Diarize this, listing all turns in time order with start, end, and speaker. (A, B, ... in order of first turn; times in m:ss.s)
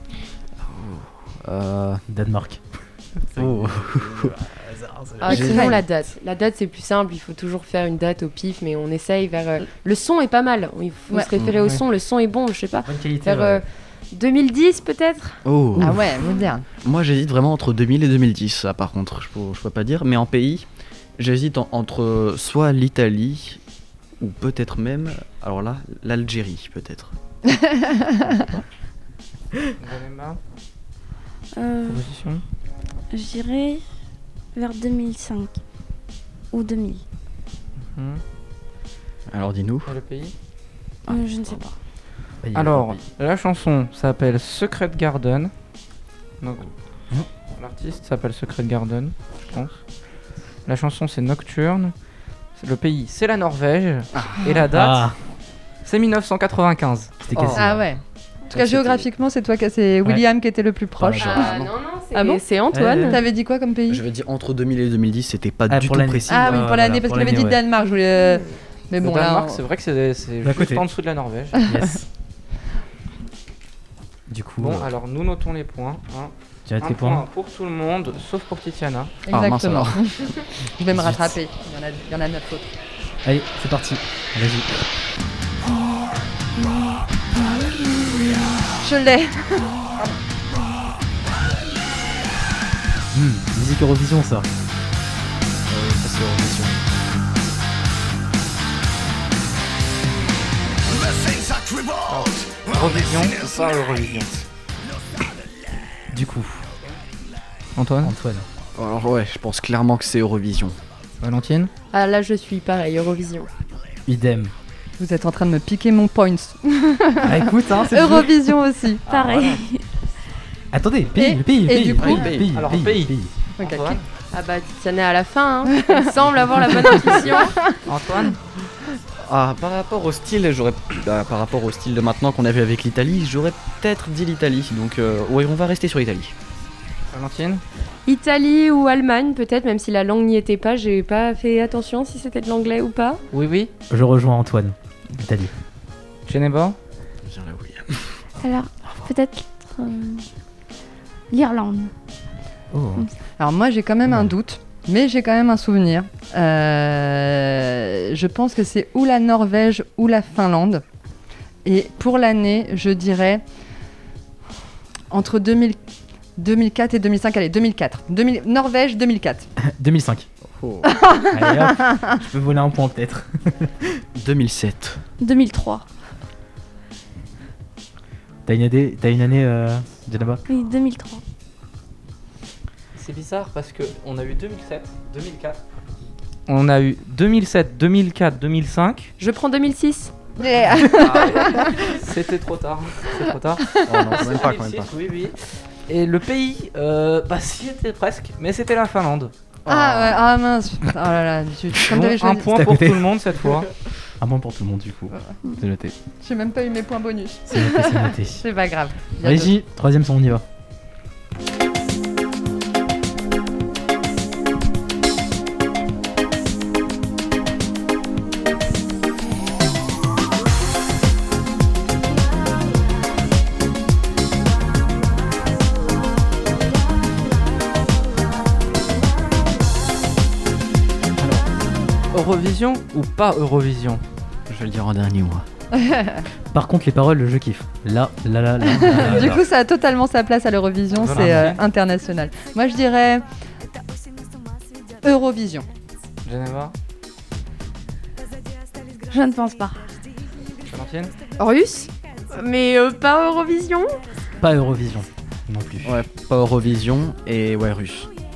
0:00.6-0:02.0 A
0:02.1-0:02.6 B
0:03.3-0:05.6 B
0:03.4-0:04.4 A
0:05.2-0:15.4 C
0:05.3-0:05.7 A
0:05.3-0:05.8 D
0:12.8-0:13.6 B
0:15.4-0:16.0 A
0:15.8-0:16.7 D
0:16.8-0:20.7 A
0:21.2-0:23.6 A
0:24.2-0:27.1 A
0:27.5-0:28.2 D
0:29.8-0:30.4 E
0:31.5-0:32.0 F
0:31.9-0:32.4 E
0:33.1-0:33.8 F
0:34.6-0:35.6 F
0:36.5-0:37.0 F
0:37.9-0:38.2 E
0:39.3-0:39.9 A
0:39.9-0:40.3 E
0:41.1-0:41.8 F
0:42.4-0:43.0 B
0:42.6-0:45.5 E
0:46.4-0:46.7 E
0:47.5-0:49.8 E
0:50.7-0:51.9 E
0:52.6-0:55.1 E
0:54.7-0:55.2 B
0:55.8-0:57.5 E
0:57.2-0:57.8 B
0:57.4-0:57.6 A
0:57.6-1:02.4 D
0:58.5-0:59.1 A
1:01.0-1:01.5 B
1:01.2-1:03.2 C
1:01.4-1:01.6 A
1:02.7-1:03.2 B
1:03.0-1:04.0 D
1:03.9-1:06.6 A
1:05.7-1:07.6 B
1:06.3-1:09.6 D
1:09.0-1:11.6 E
1:10.4-1:10.8 B
1:11.6-1:12.0 B
1:14.3-1:14.9 B
1:14.6-1:19.1 E
1:16.7-1:17.2 B
1:19.3-1:22.7 D
1:19.3-1:20.0 A
1:20.9-1:21.3 B
1:23.2-1:24.7 B
1:26.6-1:28.5 F
1:28.8-1:29.9 D
1:33.1-1:34.5 B
1:35.7-1:36.9 A
1:42.1-1:44.5 E
1:46.1-1:46.6 B
1:47.8-1:48.2 E
1:48.0-1:48.4 B
1:48.8-1:50.8 A
1:51.2-1:51.7 E
1:51.9-1:53.5 C
1:54.1-1:54.5 B
1:55.0-1:59.0 D
1:57.2-1:58.5 B
1:59.1-1:59.8 F
1:59.1-1:59.6 E
2:00.7-2:03.3 B
2:01.2-2:02.3 D
2:02.0-2:02.5 A
2:02.5-2:04.0 E
2:03.6-2:04.0 D
2:04.3-2:07.6 C
2:05.7-2:07.8 D
2:07.8-2:08.4 E
2:09.2-2:16.3 A
2:17.1-2:17.6 E
2:18.1-2:23.2 C
2:23.3-2:23.7 E
2:23.9-2:25.5 B
2:26.3-2:26.8 E
2:27.2-2:28.2 A
2:28.4-2:30.3 F
2:31.3-2:31.9 F
2:32.7-2:33.1 B
2:33.4-2:40.8 D
2:41.6-2:43.4 D
2:45.1-2:45.8 D
2:46.4-2:49.5 D
2:49.6-2:50.3 B
2:50.6-2:50.9 A
2:50.9-2:51.9 D
2:51.3-2:54.0 B
2:54.2-2:55.0 A
2:55.2-2:55.9 F
2:58.5-3:00.4 B
3:00.5-3:01.2 F
3:03.0-3:05.6 E
3:06.5-3:09.1 E
3:09.2-3:10.2 C
3:10.4-3:11.8 D
3:10.8-3:19.3 E
3:13.8-3:14.9 A
3:19.7-3:20.2 A
3:19.7-3:22.5 D
3:21.9-3:23.7 E
3:22.5-3:23.1 B
3:24.2-3:25.9 B
3:26.2-3:29.6 D
3:27.5-3:28.4 B
3:29.2-3:30.4 B
3:52.1-3:54.0 E
3:54.5-3:55.4 A
3:55.8-3:56.2 D
3:56.5-3:59.4 B
3:58.6-4:03.2 D
4:00.9-4:01.6 E
4:01.1-4:01.5 B
4:05.0-4:05.7 D
4:06.2-4:06.7 E
4:09.1-4:09.8 F
4:10.7-4:11.1 E
4:11.4-4:14.0 C
4:14.4-4:15.9 B
4:15.8-4:18.1 A